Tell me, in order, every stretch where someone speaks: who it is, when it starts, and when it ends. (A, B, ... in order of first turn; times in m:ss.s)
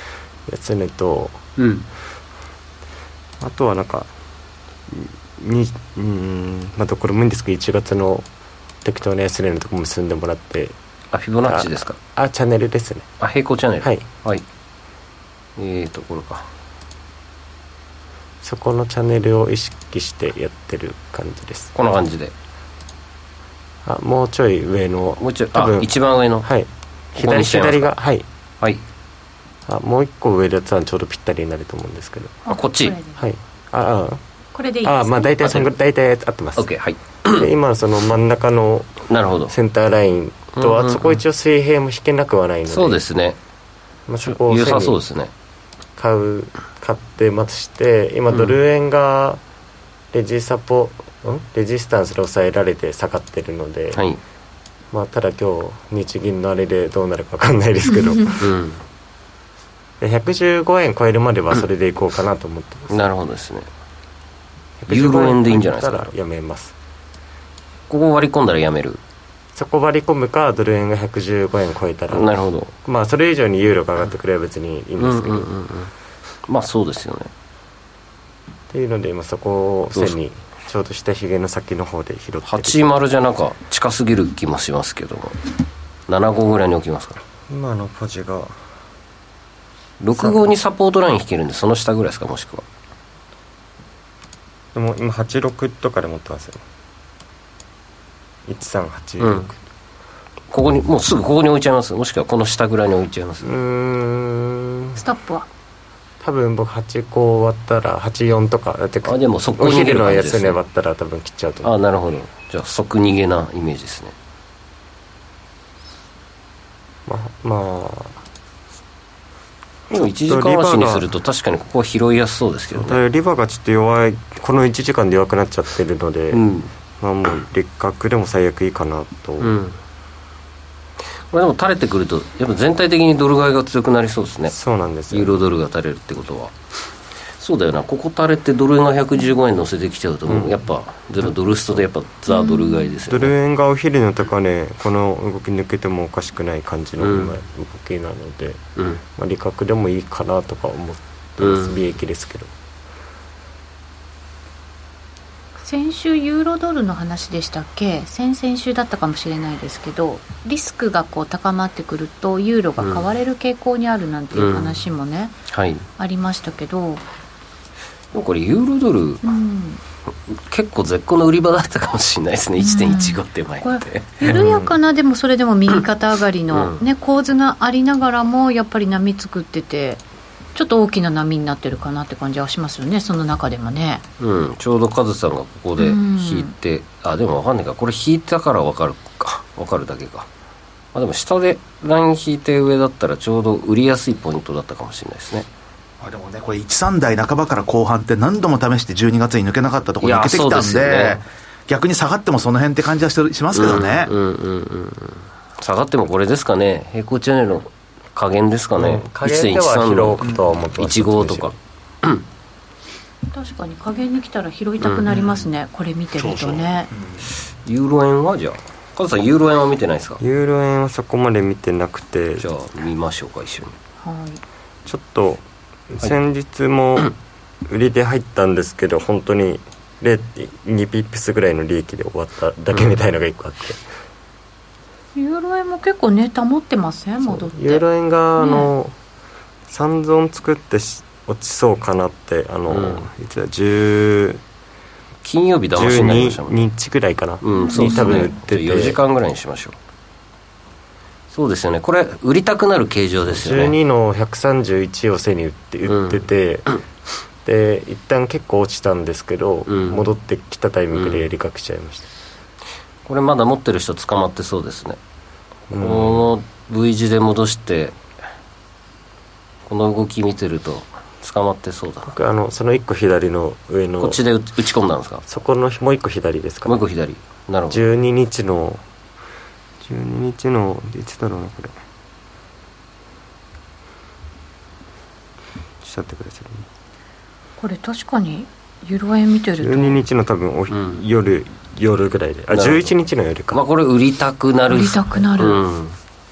0:00.4-0:01.4 A
0:01.6-0:01.8 B
0:03.4-0:04.1 A
0:04.9-0:08.2 A
0:08.8-0:10.8 A
0:11.1-0:12.0 B
0:11.4-0:13.1 A
0:13.2-0:14.4 B
0:15.6-0:16.5 B
0:18.4-0:21.7 A
0:21.7-0:22.3 B
0:23.8-0:25.9 A
0:25.2-0:26.5 B
0:26.4-0:28.2 A
0:27.2-0:27.9 B
0:29.7-0:32.4 A
0:32.5-0:33.2 C
0:32.5-0:33.0 B
0:33.2-0:34.2 A
0:34.5-0:35.6 C
0:34.8-0:36.7 A
0:36.6-0:37.5 B
0:37.3-0:43.0 A
0:39.1-0:39.5 B
0:40.6-0:41.2 B
0:42.7-0:43.4 B
0:44.1-0:45.0 A
0:44.2-0:45.3 B
0:46.0-0:49.4 A
0:50.1-0:54.0 A
0:53.9-0:54.2 B
0:54.9-0:58.5 A
0:58.4-0:58.8 B
1:00.0-1:03.0 A
1:02.9-1:03.7 B
1:04.8-1:06.7 A
1:04.9-1:06.0 B
1:07.9-1:09.0 B
1:09.5-1:12.3 A
1:12.1-1:12.7 B
1:12.8-1:15.5 A
1:15.0-1:15.9 B
1:16.5-1:17.3 B
1:18.7-1:22.8 A
1:22.4-1:25.4 B
1:26.1-1:27.2 B
1:27.5-1:28.6 A
1:30.0-1:32.6 B
1:34.7-1:36.6 A
1:38.4-1:39.6 A
1:39.2-1:39.5 B
1:40.5-1:43.5 B
1:43.4-1:45.0 A
1:45.0-1:45.5 C
1:46.2-1:51.7 A
1:49.0-1:50.6 B
1:51.6-1:54.1 B
1:57.0-1:58.2 A
1:59.9-2:01.1 A
1:59.9-2:03.0 B
2:02.7-2:06.4 A
2:06.3-2:06.7 B
2:07.0-2:09.5 A
2:09.4-2:09.8 B
2:11.3-2:14.5 B
2:14.5-2:15.4 A
2:15.1-2:16.5 B
2:17.4-2:23.3 B
2:20.3-2:20.6 A
2:22.3-2:22.9 C
2:23.1-2:28.6 A
2:27.0-2:27.4 B
2:29.1-2:32.5 A
2:31.4-2:31.8 B
2:35.6-2:45.3 C
2:42.8-2:43.0 B
2:44.3-2:44.8 B
2:45.5-2:45.8 B
2:46.0-2:47.0 C
2:48.1-2:49.2 B
2:49.2-2:49.8 C
2:50.3-2:54.3 B
2:52.6-3:00.0 C
2:54.3-2:54.7 A
2:56.5-2:56.8 B
3:00.5-3:04.0 C
3:04.2-3:10.3 B
3:05.8-3:06.5 C
3:10.9-3:15.5 B
3:16.0-3:24.1 D
3:20.0-3:21.2 B
3:23.5-3:32.2 B
3:28.7-3:31.6 A
3:33.3-3:36.9 C
3:35.1-3:35.4 D
3:36.2-3:37.3 D
3:37.6-3:40.2 B
3:40.2-3:42.5 A
3:42.4-3:43.8 B
3:44.0-3:44.4 C
3:44.8-3:47.1 A
3:47.7-3:53.8 A
3:55.1-3:57.8 C
3:57.2-3:58.9 A
3:58.4-3:58.7 C
3:59.7-4:04.4 A
4:02.7-4:03.1 B
4:05.2-4:06.7 B
4:05.7-4:09.0 A
4:07.4-4:09.8 B
4:07.5-4:08.0 C
4:11.3-4:13.7 B
4:13.3-4:16.7 A
4:15.9-4:16.2 B
4:17.4-4:22.1 A
4:19.7-4:20.0 B
4:20.9-4:21.2 B
4:23.0-4:25.0 B
4:25.7-4:26.3 A
4:25.7-4:28.0 B
4:29.7-4:32.1 B
4:32.0-4:34.2 A
4:34.0-4:35.2 B
4:35.2-4:36.8 A
4:36.6-4:37.8 B
4:37.7-4:38.8 A
4:39.8-4:41.7 A
4:45.8-4:46.6 A
4:47.6-4:50.0 C
4:49.6-4:53.6 A
4:52.5-4:53.0 B
4:53.5-4:56.0 B
4:54.7-4:55.6 C